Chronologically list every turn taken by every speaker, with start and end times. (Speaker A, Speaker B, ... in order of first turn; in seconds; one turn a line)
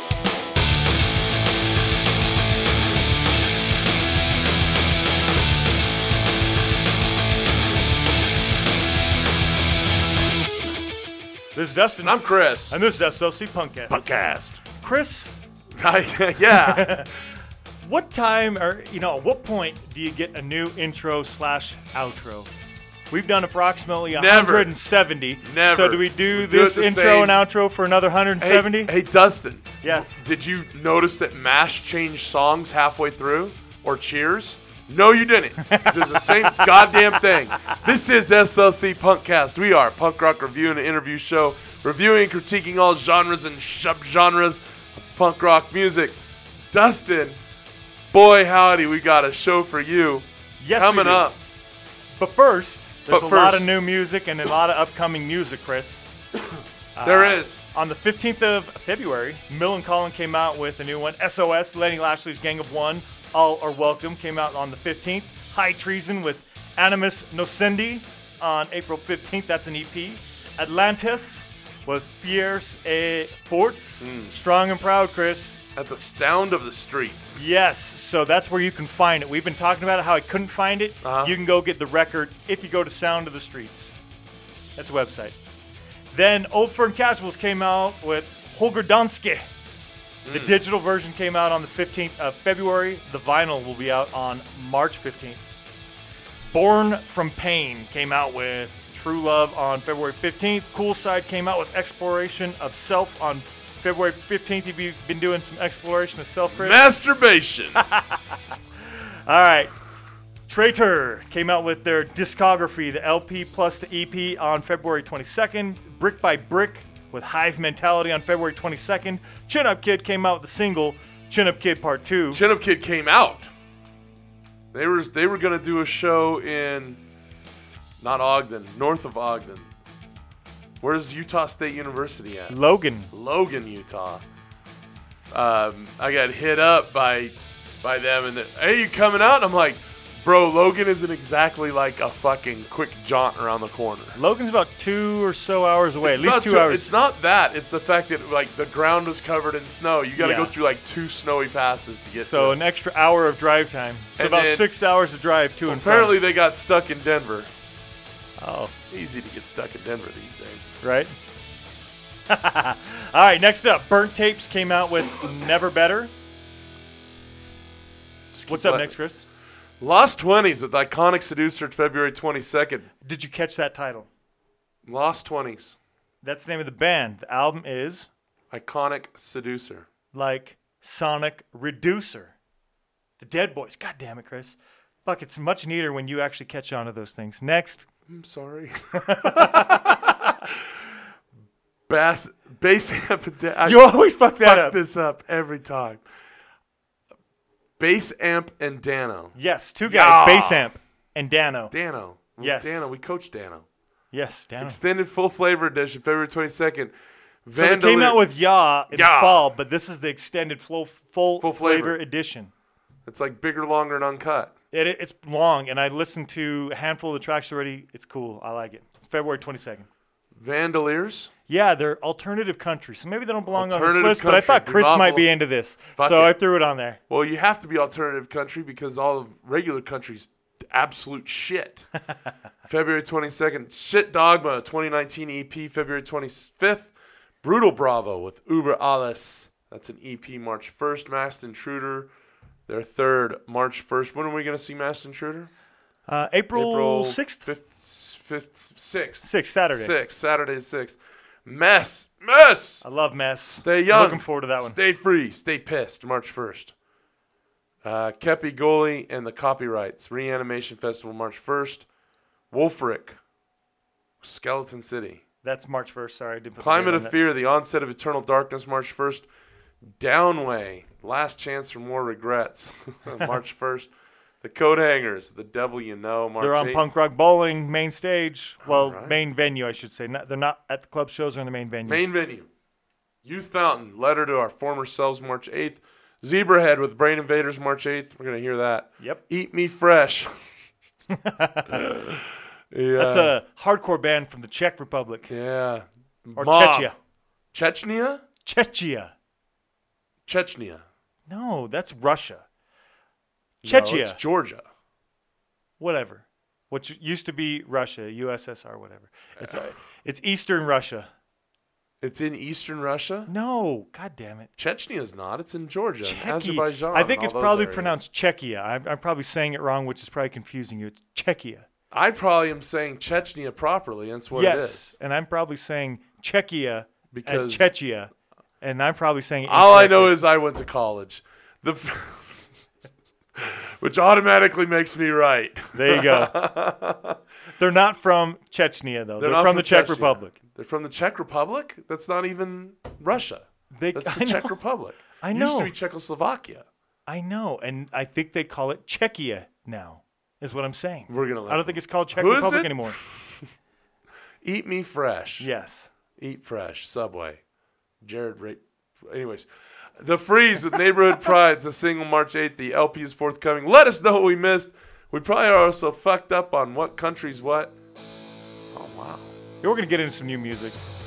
Speaker A: 11.5-14.1
Speaker B: 12.0-12.8
Speaker B: 13.9-14.6
Speaker A: 14.6-15.4
Speaker B: 15.8-17.0
Speaker A: 16.5-17.1
Speaker A: 17.8-22.5
Speaker A: 23.1-28.9
Speaker B: 24.1-24.8
Speaker B: 25.4-27.4
Speaker B: 28.4-46.2
Speaker A: 29.8-30.2
Speaker A: 35.7-36.9
Speaker B: 46.7-47.4
Speaker B: 48.1-51.4
Speaker A: 50.6-51.3
Speaker A: 52.2-56.1
Speaker B: 53.1-53.6
Speaker A: 57.0-75.6
Speaker B: 57.0-57.6
Speaker B: 74.0-74.3
Speaker B: 75.8-77.4
Speaker A: 77.4-84.0
Speaker B: 81.0-81.3
Speaker A: 84.8-85.4
Speaker A: 86.1-89.5
Speaker B: 90.2-90.6
Speaker A: 90.3-95.4
Speaker A: 96.5-106.8
Speaker B: 106.5-107.8
Speaker A: 107.8-109.7
Speaker A: 110.5-122.4
Speaker B: 122.3-123.5
Speaker B: 124.7-127.0
Speaker B: 128.0-129.7
Speaker B: 130.8-132.6
Speaker A: 132.5-133.1
Speaker B: 133.1-134.2
Speaker B: 135.3-144.2
Speaker A: 144.2-146.9
Speaker B: 146.0-152.6
Speaker A: 150.2-150.5
Speaker A: 152.2-156.2
Speaker B: 154.2-154.7
Speaker B: 155.7-157.5
Speaker A: 158.4-158.7
Speaker B: 158.9-160.8
Speaker A: 160.8-161.1
Speaker A: 162.3-166.1
Speaker B: 168.3-169.0
Speaker A: 168.5-169.2
Speaker B: 169.8-172.9
Speaker A: 173.0-174.1
Speaker B: 174.9-175.8
Speaker A: 176.2-178.1
Speaker B: 178.5-179.9
Speaker A: 180.1-182.3
Speaker A: 183.2-187.9
Speaker B: 188.1-190.6
Speaker A: 188.9-190.2
Speaker B: 191.9-196.0
Speaker A: 193.6-194.8
Speaker B: 197.8-200.7
Speaker A: 199.3-201.7
Speaker B: 201.7-203.7
Speaker A: 202.4-202.9
Speaker A: 204.1-204.8
Speaker B: 204.6-208.2
Speaker A: 207.5-212.5
Speaker B: 208.9-209.4
Speaker B: 211.4-212.0
Speaker B: 213.1-214.5
Speaker A: 214.7-219.9
Speaker B: 220.3-221.3
Speaker A: 221.5-227.0
Speaker B: 223.5-225.3
Speaker B: 226.0-226.3
Speaker B: 227.1-231.9
Speaker B: 232.7-242.1
Speaker B: 242.7-245.5
Speaker A: 246.1-247.4
Speaker B: 246.5-252.8
Speaker A: 249.2-249.9
Speaker A: 252.8-254.8
Speaker B: 253.5-256.8
Speaker B: 257.8-261.9
Speaker B: 262.5-263.2
Speaker B: 264.2-265.2
Speaker A: 265.4-267.2
Speaker B: 266.6-269.3
Speaker B: 269.8-276.9
Speaker A: 276.4-282.0
Speaker B: 278.6-279.2
Speaker B: 281.9-282.5
Speaker B: 283.2-290.4
Speaker A: 291.1-291.9
Speaker B: 291.7-293.3
Speaker A: 293.0-295.3
Speaker B: 295.3-296.9
Speaker A: 296.4-297.0
Speaker B: 297.5-298.2
Speaker A: 298.4-299.1
Speaker B: 300.3-300.9
Speaker A: 301.3-302.5
Speaker A: 303.6-304.2
Speaker B: 303.6-304.7
Speaker A: 305.8-311.1
Speaker B: 309.4-309.7
Speaker B: 312.0-313.3
Speaker A: 313.3-314.5
Speaker B: 314.6-318.0
Speaker A: 316.0-321.7
Speaker B: 321.9-324.9
Speaker A: 324.3-330.2
Speaker B: 327.1-327.7
Speaker B: 329.5-332.6
Speaker B: 333.4-337.2
Speaker A: 335.7-336.4
Speaker A: 337.6-340.4
Speaker B: 339.2-346.7
Speaker A: 343.7-344.6
Speaker A: 345.2-345.7
Speaker A: 347.1-353.0
Speaker B: 351.1-353.5
Speaker B: 354.4-355.5
Speaker A: 355.4-355.9
Speaker B: 356.1-357.4
Speaker B: 358.0-367.7
Speaker B: 368.7-369.3
Speaker A: 369.6-370.8